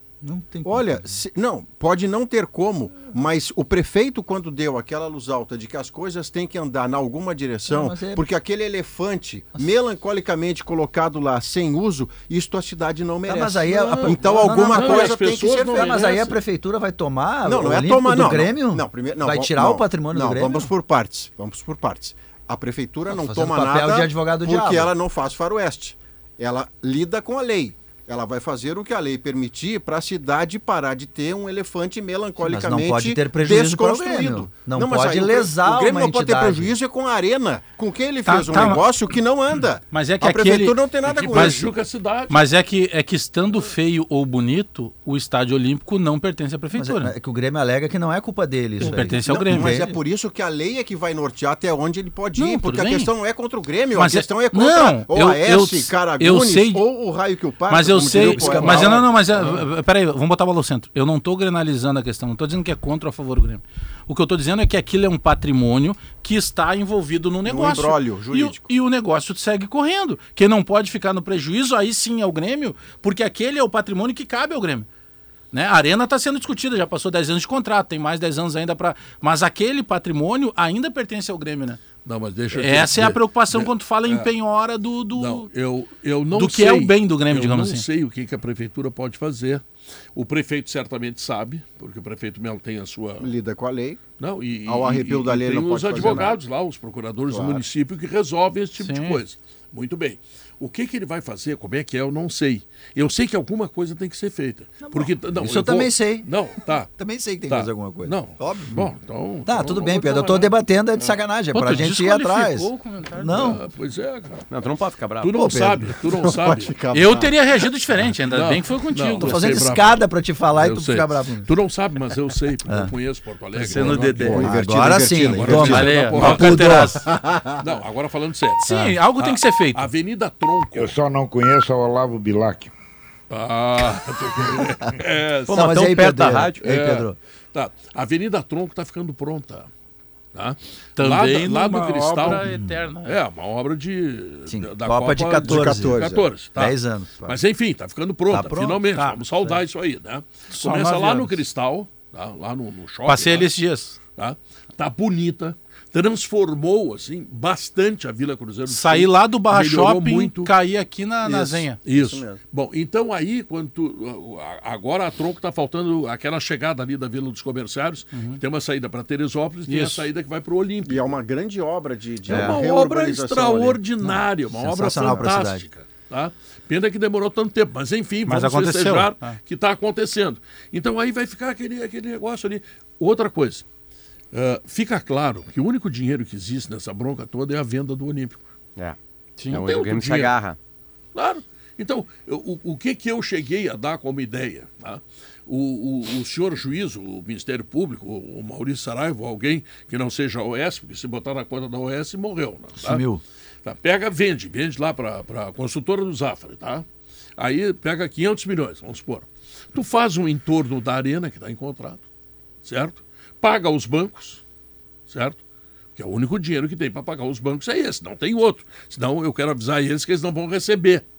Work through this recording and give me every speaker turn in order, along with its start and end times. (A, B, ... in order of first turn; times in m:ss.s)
0:00.2-0:01.2 A
0:00.6-0:16.2 B
0:07.7-0:08.2 A
0:13.2-0:20.7 A
0:14.0-0:16.4 C
0:17.4-0:41.7 B
0:23.1-0:24.9 A
0:32.4-0:36.7 A
0:38.2-0:38.8 D
0:39.9-0:40.8 D
0:41.0-0:42.4 C
0:41.3-0:41.7 D
0:42.3-0:47.1 D
0:46.7-0:50.0 A
0:48.8-0:49.8 D
0:48.8-0:59.1 B
0:52.4-0:53.1 D
0:53.9-0:56.8 D
0:57.7-1:14.9 D
0:58.1-0:59.0 A
1:07.4-1:08.7 B
1:15.5-1:21.8 D
1:22.0-1:24.3 C
1:22.5-1:25.5 D
1:25.1-1:29.6 C
1:26.3-1:27.8 D
1:30.1-1:33.3 C
1:33.2-1:34.0 B
1:34.2-1:46.9 C
1:34.6-1:36.4 B
1:37.3-1:37.6 B
1:38.8-1:39.2 D
1:44.8-1:46.3 A
1:47.0-1:48.9 A
1:47.5-1:51.2 C
1:49.4-1:53.6 A
1:51.5-1:53.6 D
1:53.3-1:54.4 C
1:54.5-1:55.4 E
1:55.2-1:56.7 C
1:55.3-1:55.9 A
1:56.1-1:57.3 B
1:56.9-1:59.6 D
1:58.3-2:04.5 C
1:59.2-2:01.5 A
2:02.7-2:02.9 A
2:03.6-2:04.4 D
2:03.9-2:07.0 A
2:04.0-2:07.6 B
2:05.1-2:06.8 C
2:05.6-2:07.0 D
2:07.6-2:10.9 C
2:08.6-2:09.9 D
2:10.7-2:12.7 F
2:13.3-2:15.8 C
2:15.5-2:16.6 E
2:15.5-2:17.2 A
2:16.6-2:19.7 C
2:20.3-2:22.5 C
2:21.0-2:23.2 D
2:22.4-2:22.7 A
2:23.0-2:33.5 C
2:24.5-2:26.0 A
2:25.4-2:26.3 B
2:26.5-2:27.4 A
2:28.3-2:28.8 A
2:30.5-2:31.4 D
2:33.1-2:34.0 D
2:34.2-2:40.5 C
2:38.7-2:41.8 D
2:41.3-2:42.4 B
2:41.4-2:51.1 C
2:48.1-2:48.4 D
2:49.7-2:50.0 D
2:50.8-2:53.8 B
2:52.3-3:03.6 C
2:54.0-2:55.6 A
2:58.3-2:59.4 D
3:04.3-3:08.4 C
3:09.4-3:09.6 D
3:09.5-3:10.6 E
3:09.5-3:10.3 C
3:11.1-3:23.0 C
3:22.8-3:23.2 A
3:23.6-3:26.8 C
3:27.4-3:32.0 C
3:32.6-3:34.4 C
3:35.1-3:35.4 C
3:36.0-3:41.0 C